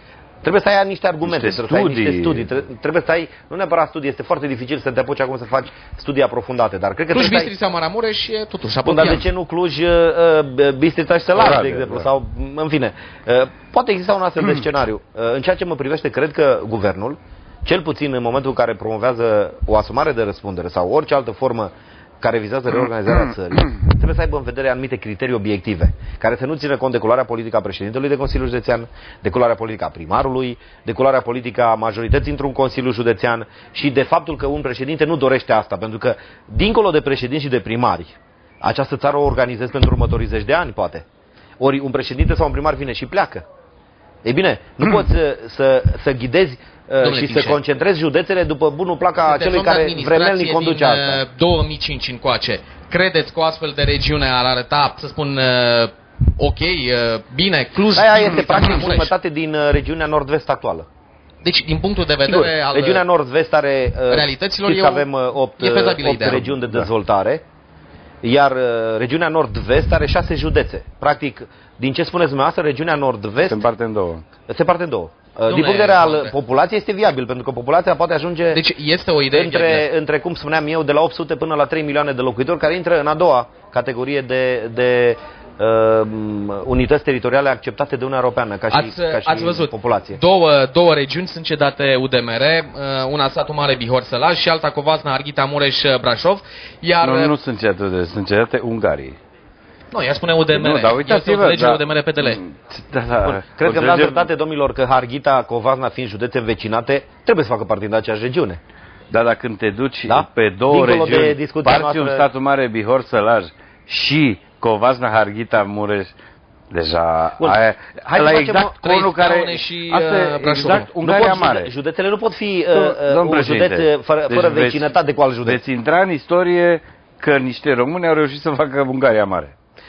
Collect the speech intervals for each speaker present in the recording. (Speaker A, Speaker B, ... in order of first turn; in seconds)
Speaker A: 0.4-7.5, 8.8-41.0, 41.6-43.4, 44.2-51.2, 58.0-60.9, 62.2-67.4, 68.2-73.6, 74.5-78.6, 79.3-90.2, 103.2-108.6, 110.1-112.3, 117.4-118.8, 120.8-125.6
Speaker B: 1.2-2.5, 11.3-12.1, 73.4-74.2, 97.0-99.2, 100.5-104.3, 109.1-116.1, 116.7-121.7, 122.7-124.9, 125.4-129.5
Speaker C: 7.1-9.2, 47.0-47.6, 49.2-59.1, 61.4-63.0, 64.1-65.1, 65.6-66.4, 75.5-76.3, 78.5-79.9, 88.7-97.3, 99.9-102.4, 118.7-120.9